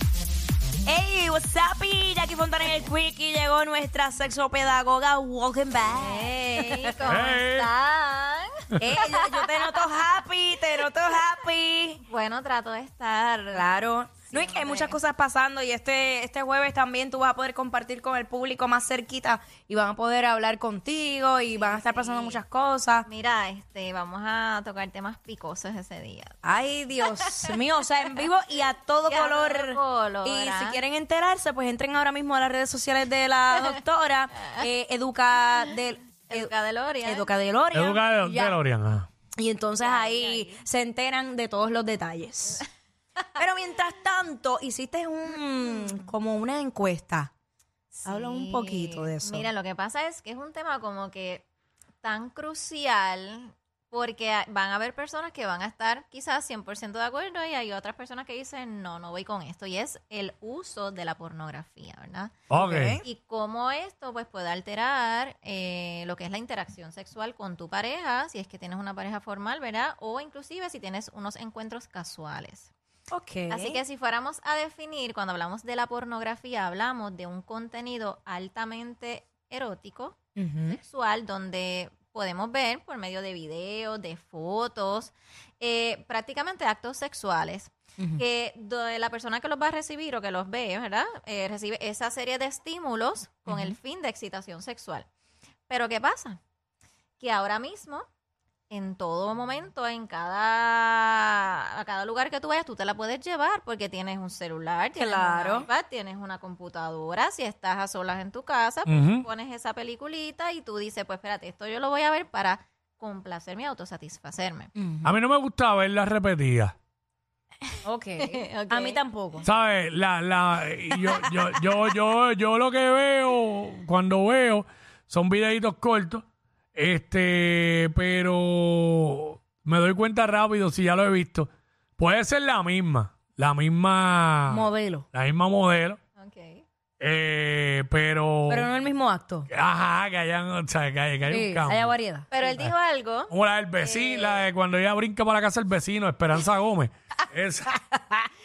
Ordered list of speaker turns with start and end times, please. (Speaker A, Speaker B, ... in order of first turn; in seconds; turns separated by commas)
Speaker A: 0.9-6.9, Speaker B: 5.9-9.8, Speaker C: 7.1-7.7, Speaker A: 8.8-12.0, Speaker B: 12.0-13.7, Speaker A: 13.5-23.1, Speaker B: 14.3-15.0, Speaker B: 21.5-22.4, Speaker B: 23.1-26.4, Speaker A: 26.4-36.5, Speaker B: 29.1-30.8, Speaker B: 34.4-34.7, Speaker B: 36.3-37.3, Speaker A: 37.0-38.6, Speaker C: 37.7-39.1, Speaker A: 39.4-42.6, Speaker B: 39.8-40.6, Speaker A: 43.4-47.3, Speaker B: 45.7-46.1, Speaker B: 47.9-51.5, Speaker A: 48.0-49.5, Speaker B: 52.0-62.4, Speaker C: 62.5-63.0, Speaker A: 62.5-63.0, Speaker B: 63.0-72.7, Speaker A: 73.1-73.8, Speaker B: 73.5-95.1, Speaker A: 80.3-80.8, Speaker A: 93.5-93.8, Speaker B: 95.7-96.4, Speaker B: 97.2-98.0, Speaker B: 98.7-114.7, Speaker A: 105.0-105.7, Speaker C: 108.8-109.2, Speaker A: 114.8-115.1, Speaker C: 115.0-116.7, Speaker A: 117.8-119.5, Speaker B: 118.2-119.0, Speaker C: 119.4-136.0, Speaker A: 134.5-135.1, Speaker B: 136.2-136.6, Speaker C: 137.0-138.7, Speaker A: 138.5-139.5, Speaker C: 139.5-141.9, Speaker A: 141.3-142.3, Speaker B: 142.3-144.5, Speaker C: 143.3-147.8, Speaker A: 147.8-148.3